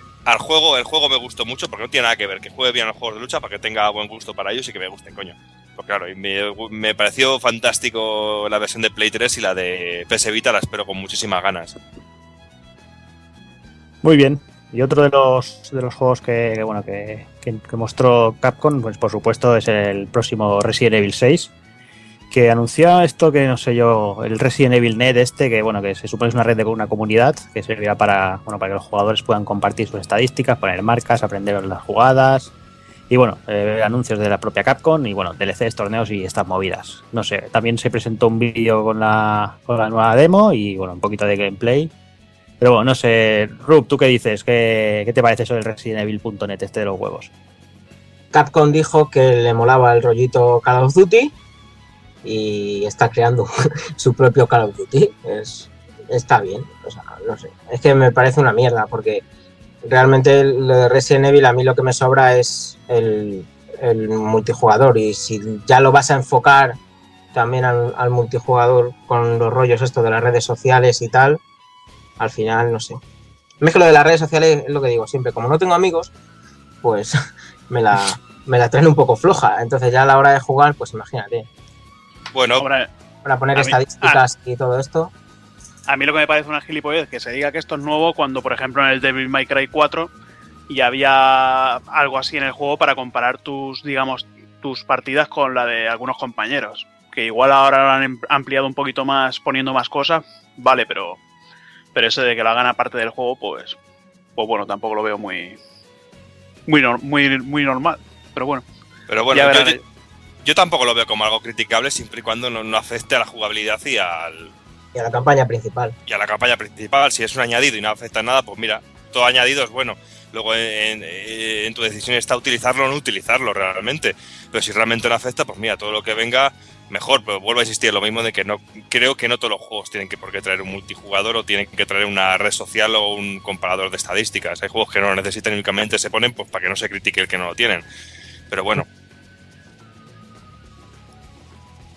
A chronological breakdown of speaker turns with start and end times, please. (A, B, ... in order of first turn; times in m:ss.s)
0:00.3-0:11.8 A
0:14.0-0:21.5 B
0:22.3-0:32.5 B
0:33.1-0:41.9 B
0:42.6-0:47.3 B
0:48.3-0:51.3 C
0:52.2-0:59.2 C
0:59.8-1:06.8 C
1:07.3-1:11.4 C
1:12.2-1:13.0 C
1:13.6-1:16.1 C
1:16.8-1:17.2 C
1:17.7-1:21.5 C
1:22.3-1:22.6 A
1:22.6-1:22.9 D
1:23.2-1:25.1 C
1:23.6-1:24.2 D
1:25.9-1:30.1 D
1:30.7-1:41.2 D
1:41.9-1:43.8 D
1:44.4-1:45.6 D
1:46.7-1:48.6 D
1:49.1-1:49.8 A
1:49.3-1:49.8 D
1:50.4-1:54.5 A
1:55.0-1:55.9 C
1:56.1-2:17.8 A
2:18.5-2:18.9 A